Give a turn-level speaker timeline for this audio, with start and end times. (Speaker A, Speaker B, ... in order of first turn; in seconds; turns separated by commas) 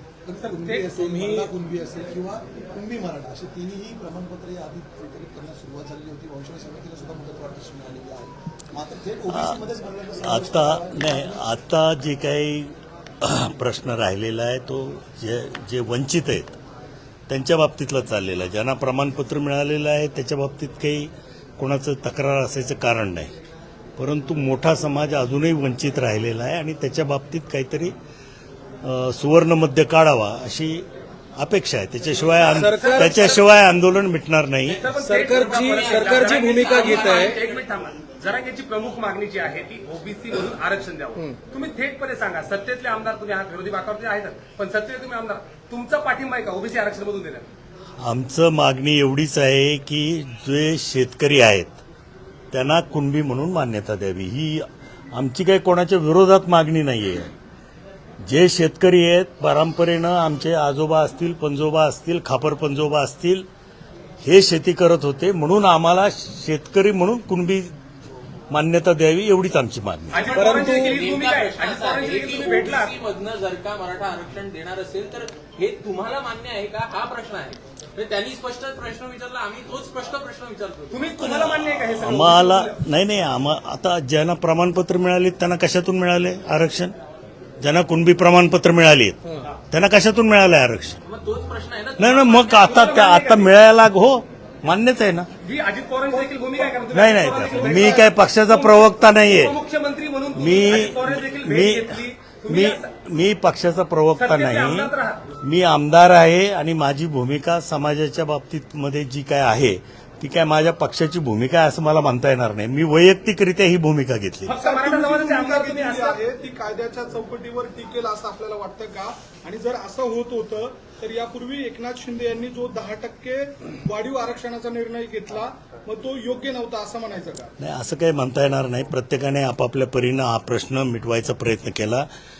Speaker A: 0.2-11.4, Speaker B: 1.0-1.5, Speaker C: 9.3-9.6, Speaker C: 10.2-16.6, Speaker C: 17.3-23.3, Speaker C: 24.0-27.9, Speaker C: 28.8-30.9, Speaker C: 31.4-34.8, Speaker B: 32.5-33.4, Speaker D: 32.6-33.4, Speaker D: 34.7-47.5, Speaker B: 34.9-37.5, Speaker C: 48.0-51.8, Speaker C: 52.5-57.3, Speaker C: 58.2-63.5, Speaker C: 64.2-67.7, Speaker C: 68.5-70.2, Speaker D: 70.1-73.0, Speaker B: 70.1-81.0, Speaker D: 80.9-82.8, Speaker C: 81.2-86.9, Speaker C: 87.6-89.2, Speaker C: 89.7-91.0, Speaker B: 91.0-92.8, Speaker C: 92.0-95.3, Speaker D: 92.5-93.5, Speaker D: 95.4-102.9, Speaker C: 96.9-99.5, Speaker C: 100.3-104.9, Speaker D: 104.2-105.2, Speaker C: 105.4-114.5, Speaker D: 114.5-116.2, Speaker E: 114.6-127.5, Speaker C: 127.6-132.1